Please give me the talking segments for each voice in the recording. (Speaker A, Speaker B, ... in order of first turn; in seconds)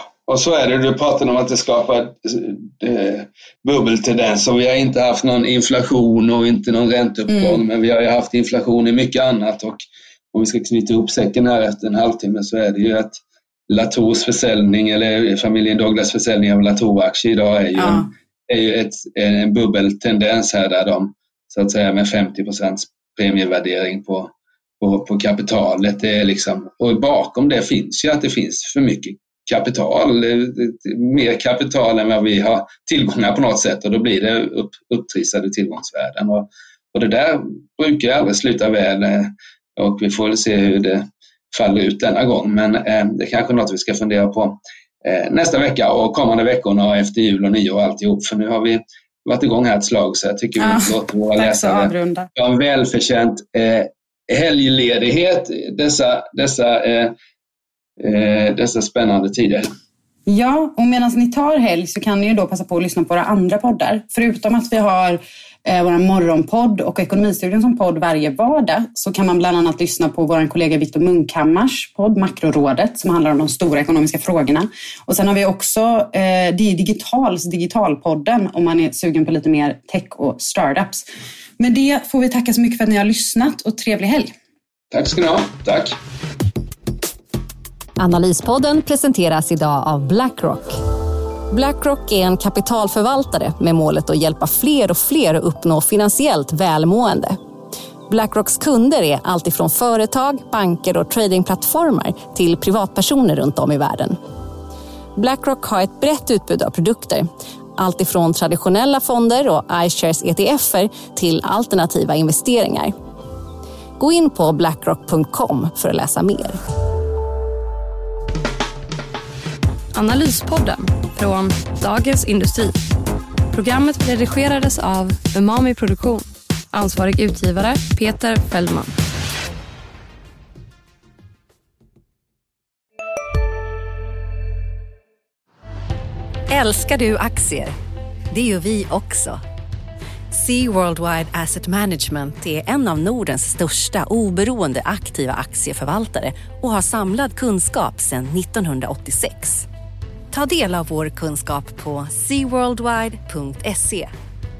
Speaker A: 0.2-9.8, 10.3-57.1, 58.0-59.7, 84.9-86.0
Speaker B: 7.3-7.6, 17.8-18.1, 50.6-52.3, 60.3-81.0, 81.6-84.3
Speaker C: 88.0-90.8, 91.5-97.4, 98.1-104.2, 105.2-112.9, 114.0-116.6
Speaker D: 119.9-122.8, 123.5-128.9
Speaker E: 136.5-137.7, 138.3-139.4, 140.3-149.7, 150.3-154.1